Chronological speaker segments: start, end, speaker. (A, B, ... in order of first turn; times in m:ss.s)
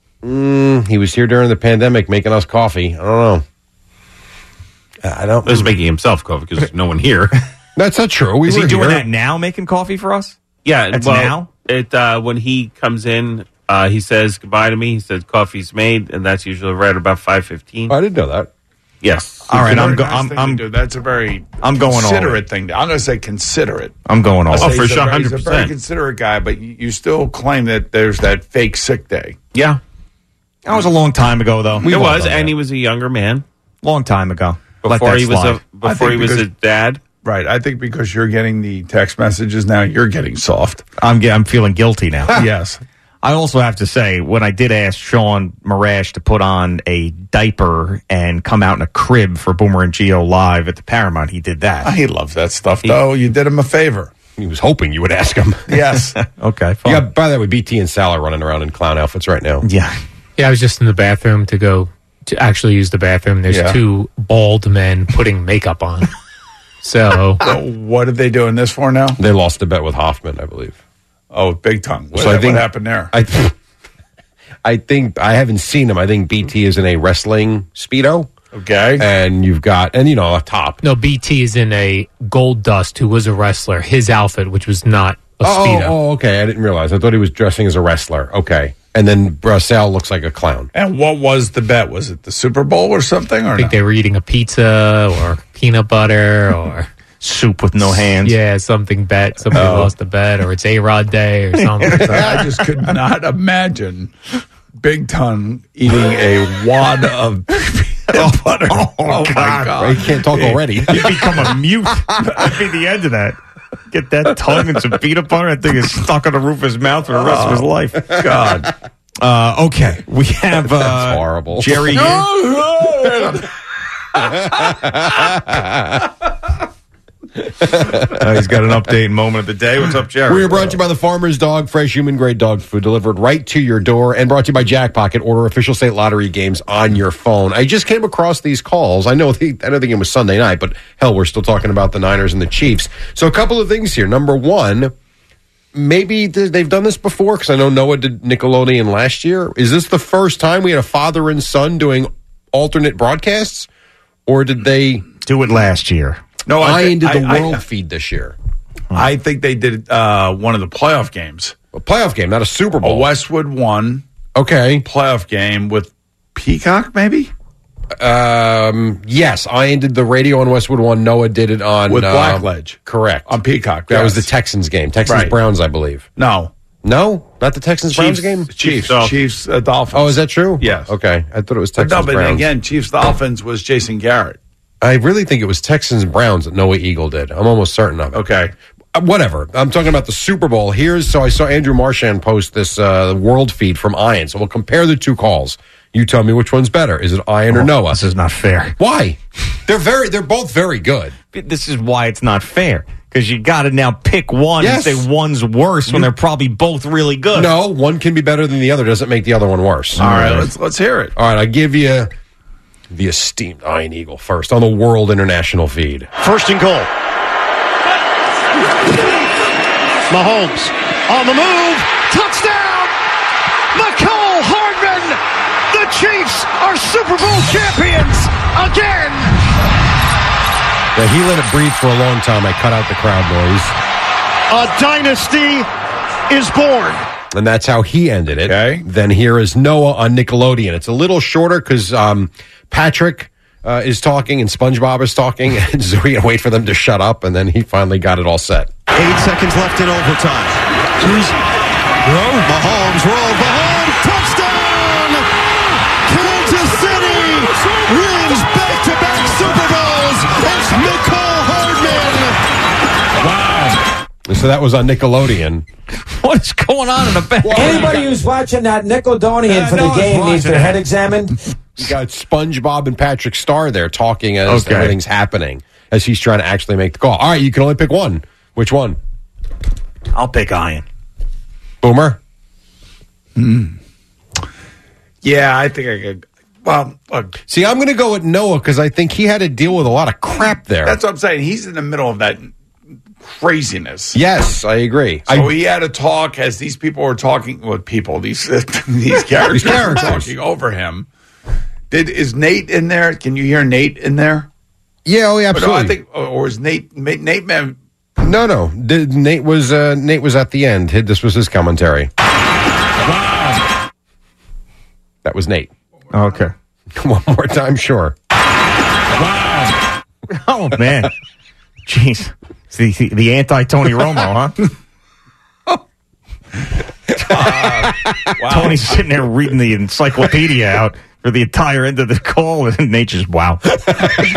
0:00.2-0:03.4 A
0:05.0-0:05.7 A
0:05.4-0:07.4 B
0:07.8-0:09.0 A
0:08.4-0:10.4 C
0:10.6-0:17.9 B
0:10.9-0:11.5 C
0:17.9-0:18.5 A
0:19.0-0:19.4 B
0:19.4-0:23.9 D
0:19.5-0:20.6 C
0:21.6-0:22.4 C
0:24.1-0:24.8 C
0:24.5-0:29.4 D
0:24.6-0:25.7 B
0:30.6-0:32.5 C
0:31.8-0:33.4 B
0:33.8-0:35.6 C
0:34.8-0:37.0 B
0:35.8-0:36.5 D
0:37.2-0:40.8 D
0:41.0-0:42.4 C
0:42.3-0:42.8 D
0:43.2-0:51.9 C
0:51.8-0:54.1 D
0:54.4-0:55.8 A
0:55.7-0:56.2 D
0:56.2-0:57.0 C
0:56.8-0:59.6 A
0:59.6-0:59.9 C
1:00.4-1:06.1 E
1:03.5-1:03.8 D
1:06.8-1:07.4 E
1:07.4-1:09.2 D
1:09.2-1:10.8 A
1:11.3-1:13.1 D
1:12.1-1:13.5 A
1:14.6-1:18.3 A
1:18.5-1:19.1 D
1:19.0-1:20.8 A
1:20.8-1:26.0 E
1:25.4-1:30.7 A
1:30.7-1:33.8 D
1:33.6-1:36.9 E
1:37.2-1:38.3 C
1:37.8-1:42.2 E
1:39.5-1:39.9 D
1:41.8-1:42.4 C
1:42.0-1:44.1 D
1:44.7-1:50.6 D
1:48.1-1:53.4 C
1:49.8-1:51.1 A
1:53.9-1:58.2 C
1:57.1-1:58.7 D
1:59.2-2:02.3 C
2:00.6-2:02.0 A
2:04.2-2:06.0 A
2:07.6-2:08.1 A
2:08.1-2:10.8 C
2:10.3-2:24.9 A
2:25.7-2:33.7 A
2:34.2-2:35.0 A
2:35.2-2:36.2 C
2:36.4-2:37.6 D
2:36.5-2:38.4 A
2:38.9-2:41.6 D
2:41.7-2:43.1 A
2:42.8-2:44.0 D
2:44.3-2:44.8 A
2:44.8-2:47.3 D
2:48.0-2:53.4 A
2:51.9-2:54.3 D
2:53.9-2:56.1 A
2:55.0-2:55.4 D
2:56.2-2:56.5 D
2:56.8-2:58.5 A
2:57.9-3:00.9 D
2:58.6-2:59.2 B
2:59.9-3:02.5 A
3:01.8-3:04.4 D
3:04.8-3:08.2 A
3:08.1-3:08.5 D
3:08.9-3:18.0 A
3:17.5-3:18.8 C
3:18.8-3:21.1 A
3:21.3-3:27.5 C
3:24.6-3:25.1 A
3:27.3-3:30.5 A
3:30.0-3:31.1 D
3:31.2-3:32.1 A
3:32.9-3:36.1 A
3:36.2-3:36.9 F
3:40.1-3:42.9 F
3:43.7-3:45.2 F
3:45.7-3:49.4 F
3:50.9-3:53.7 A
3:54.5-3:55.7 F
3:56.3-3:57.0 F
3:57.3-4:08.7 A
3:58.4-3:58.8 D
4:08.9-4:11.3 F
4:12.1-4:15.2 F
4:16.0-4:22.4 F
4:24.3-4:25.6 A
4:26.0-4:28.0 C
4:27.4-4:28.1 A
4:27.5-4:31.3 G
4:29.5-4:30.8 C
4:31.8-4:39.0 A
4:34.5-4:35.0 C
4:40.1-4:40.8 C
4:41.8-4:42.2 A
4:43.4-4:43.8 D
4:45.2-4:47.4 D
4:47.5-4:51.0 A
4:50.8-4:52.5 D
4:53.2-4:54.2 D
4:54.1-4:55.5 A
4:55.3-5:01.1 D
4:59.5-5:00.3 A
5:01.9-5:04.5 D
5:05.0-5:06.0 A
5:05.5-5:07.8 D
5:08.2-5:12.1 A
5:15.2-5:15.7 A
5:16.1-5:16.5 C
5:17.0-5:18.1 A
5:20.3-5:21.1 C
5:21.8-5:24.6 C
5:27.2-5:29.2 D
5:28.5-5:33.7 C